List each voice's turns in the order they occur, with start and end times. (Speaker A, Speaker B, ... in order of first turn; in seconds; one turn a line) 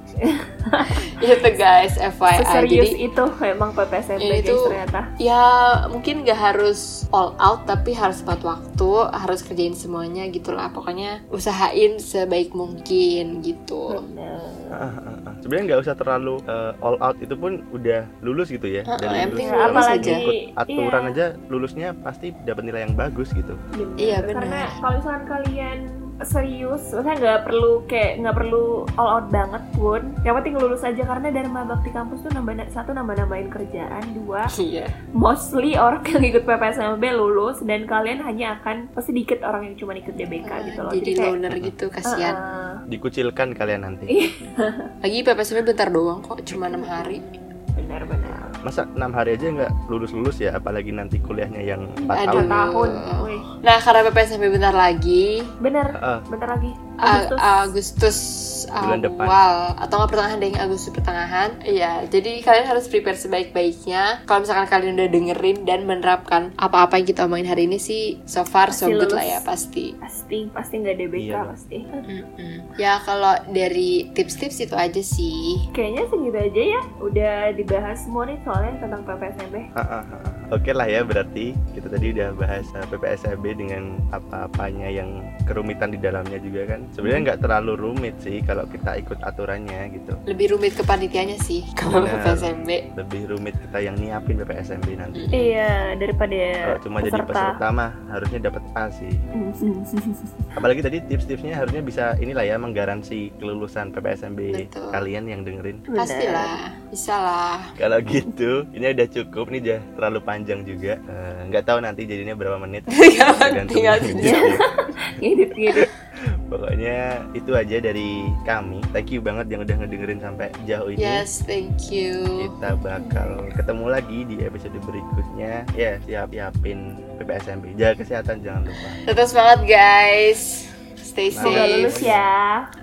Speaker A: 0.2-1.0
Speaker B: 1.1-3.0
Speaker A: 2.3-5.0
Speaker B: 4.2-14.0
Speaker A: 13.9-14.9
Speaker C: 14.7-23.6
Speaker B: 18.9-20.2
Speaker A: 19.4-21.1
Speaker A: 23.7-34.5
Speaker B: 24.0-24.8
Speaker B: 34.5-34.9
Speaker A: 35.2-41.3
Speaker B: 40.4-42.4
Speaker A: 42.0-42.8
Speaker C: 42.9-44.1
Speaker A: 44.1-44.9
Speaker B: 45.0-47.2
Speaker A: 46.6-48.5
Speaker C: 47.8-52.7
Speaker A: 52.0-53.5
Speaker B: 52.1-55.5
Speaker A: 55.6-57.7
Speaker C: 56.0-56.3
Speaker B: 57.0-69.9
Speaker C: 58.8-59.4
Speaker A: 68.7-69.4
Speaker A: 70.0-72.0
Speaker C: 71.2-71.5
Speaker B: 72.0-75.6
Speaker A: 75.7-79.7
Speaker C: 79.7-90.2
Speaker A: 82.0-82.3
Speaker B: 90.3-92.8
Speaker C: 91.9-95.3
Speaker B: 95.1-95.5
Speaker A: 95.3-97.6
Speaker C: 96.6-99.2
Speaker A: 99.3-100.5
Speaker C: 100.5-105.8
Speaker B: 104.5-105.0
Speaker A: 105.9-106.5
Speaker B: 106.0-107.7
Speaker C: 107.8-114.6
Speaker B: 112.9-114.5
Speaker A: 114.2-114.5
Speaker A: 115.2-115.9
Speaker C: 116.5-121.2
Speaker B: 121.0-122.5
Speaker C: 122.4-129.0
Speaker A: 123.0-123.4
Speaker B: 129.1-132.1
Speaker C: 131.3-132.2
Speaker A: 131.4-132.5